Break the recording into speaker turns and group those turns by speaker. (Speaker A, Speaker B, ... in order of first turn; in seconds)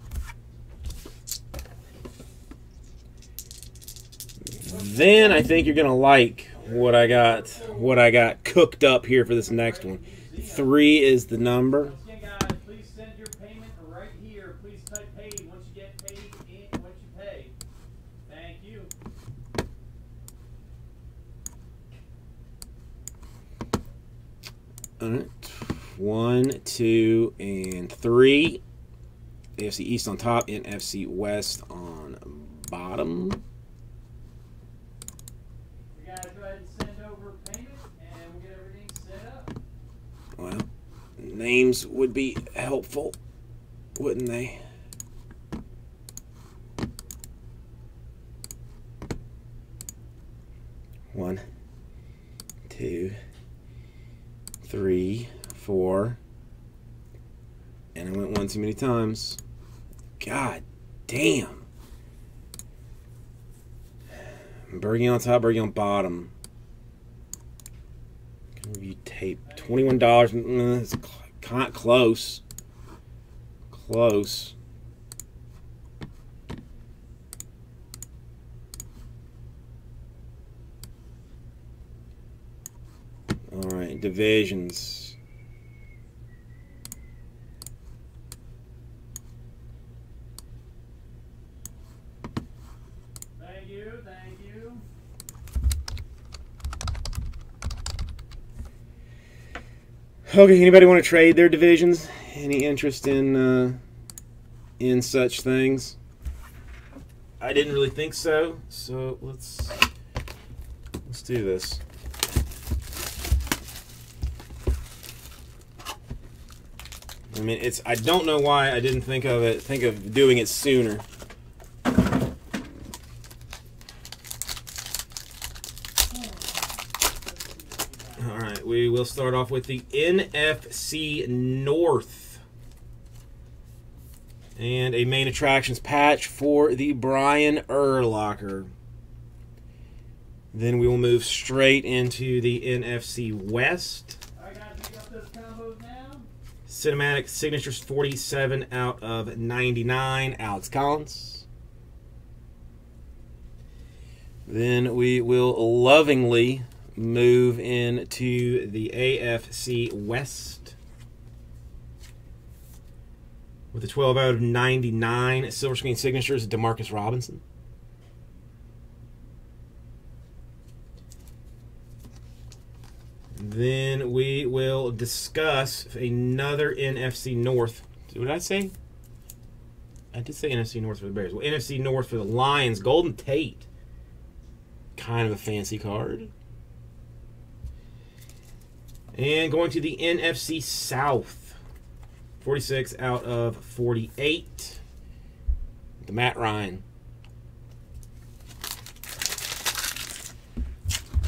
Speaker A: 4.6-11.9, 25.0-28.6, 29.6-33.4, 40.4-40.7, 41.2-43.2, 44.0-44.6, 51.1-51.4, 52.7-53.2, 54.6-56.2, 58.0-59.4, 60.2-61.7, 64.7-66.3, 68.6-72.4, 73.7-74.5, 83.5-85.2, 100.3-103.8, 104.8-106.0, 107.4-109.8, 111.0-111.8, 117.3-121.0, 128.2-132.4, 134.6-138.7, 140.5-144.2, 146.7-151.5, 154.5-160.8, 163.7-167.4, 173.3-178.7, 180.1-183.7, 185.0-186.3, 189.1-191.6, 192.4-194.8, 196.0-196.8
Speaker B: 4.6-5.7, 6.5-8.0, 9.4-10.8, 11.8-17.6, 18.2-18.9, 35.9-39.5, 69.5-70.2, 93.4-94.8, 126.1-128.4, 144.4-146.3